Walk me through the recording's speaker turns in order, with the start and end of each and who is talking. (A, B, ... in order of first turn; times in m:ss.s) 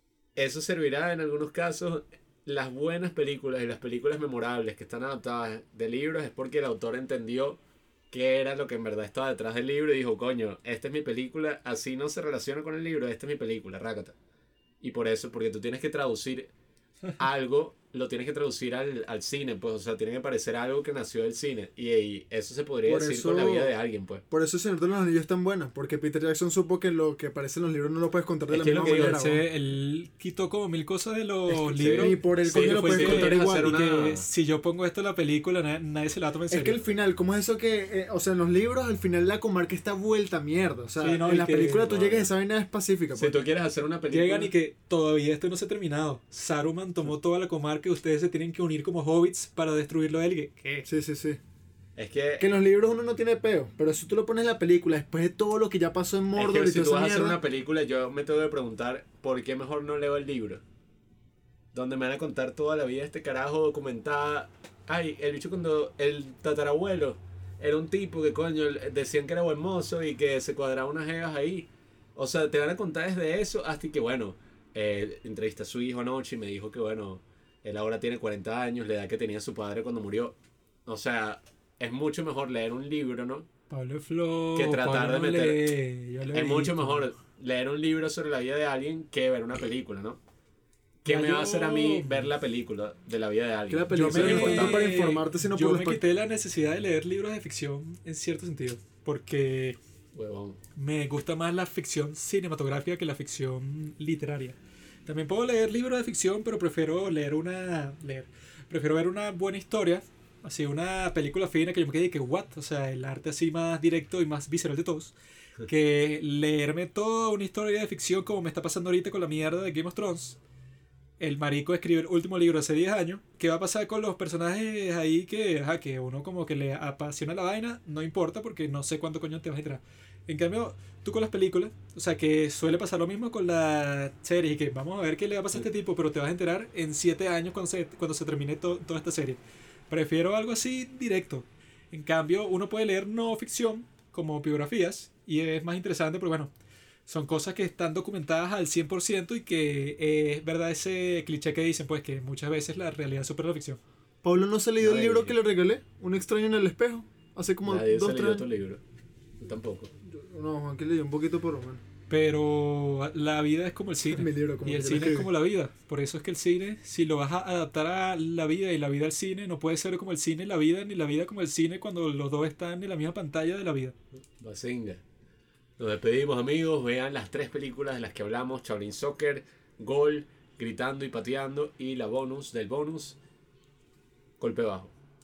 0:00.4-0:07.6 A
0:08.1-0:14.2 A
0:14.8-0:16.5 A
0:17.2-0:24.2 A
0:22.8-0:23.7 B
0:24.3-0:29.4 B
0:28.5-0:29.2 A
0:28.9-0:36.8 C
0:31.5-0:34.3 A
0:32.0-0:33.7 B
0:36.5-0:43.4 B
0:41.0-0:41.9 C
0:41.6-0:42.3 A
0:43.2-0:44.5 A
0:44.1-0:50.9 C
0:50.9-0:51.4 B
0:52.0-0:52.5 A
0:52.4-0:57.4 B
0:56.4-1:00.6 A
1:01.7-1:23.5 A
1:23.7-1:27.1 C
1:24.6-1:25.7 A
1:26.3-1:30.2 A
1:31.0-1:34.9 A
1:31.1-1:32.3 C
1:33.7-1:36.0 B
1:33.9-1:39.8 C
1:40.1-1:40.6 A
1:40.8-1:55.2 C
1:55.7-2:00.4 C
2:01.2-2:26.5 C
2:27.1-2:33.8 C
2:34.2-2:38.5 B
2:34.8-2:35.3 A
2:37.7-2:38.8 A
2:39.4-2:39.9 A
2:40.0-2:41.8 B
2:42.1-2:54.0 C
2:44.1-2:45.3 B
2:54.4-2:55.0 A
2:55.8-3:03.2 A
3:04.4-3:04.9 A